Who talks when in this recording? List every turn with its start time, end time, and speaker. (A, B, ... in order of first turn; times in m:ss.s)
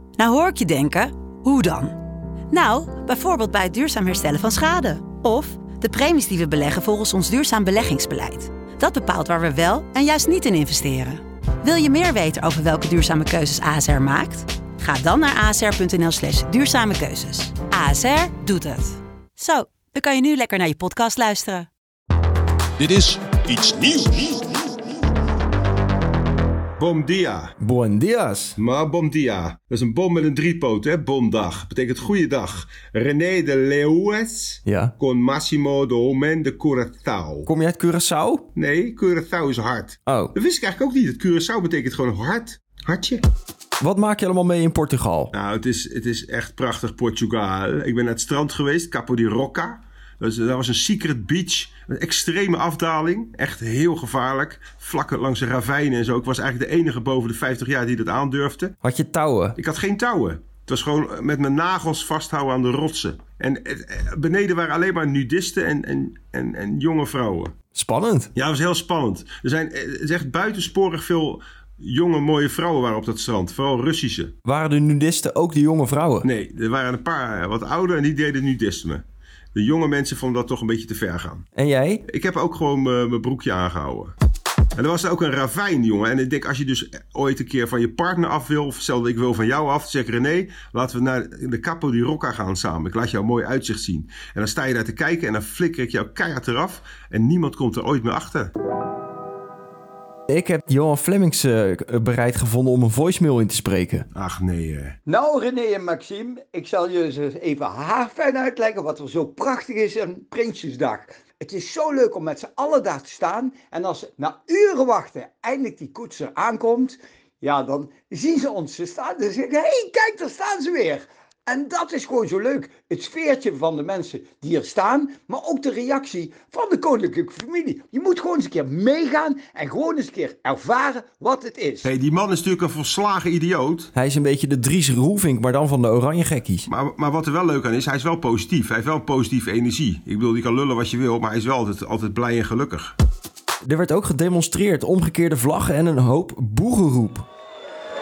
0:00.2-0:02.0 A
0:02.5-0:21.7 A
0:22.8-0:24.3 B
0:26.8-0:27.6 B
0:27.6-0:28.6 C
0:28.6-0:37.5 B
0:34.7-0:34.9 C
0:37.5-0:38.4 C
0:38.6-0:43.2 B
0:40.1-0:40.3 C
0:43.8-0:45.3 C
0:45.3-0:58.8 B
0:58.8-0:59.6 C
0:59.6-1:07.5 B
1:07.7-1:08.3 C
1:08.3-1:14.3 B
1:14.4-1:16.3 C
1:16.2-1:19.0 B
1:19.6-1:21.4 B
1:21.6-1:22.0 C
1:22.0-1:24.1 B
1:24.8-1:38.5 B
1:40.3-1:44.1 C
1:44.1-1:45.0 B
1:45.0-2:11.9 D
2:11.8-2:13.9 B
2:14.0-2:16.7 C
2:16.7-2:23.0 B
2:23.6-2:27.3 C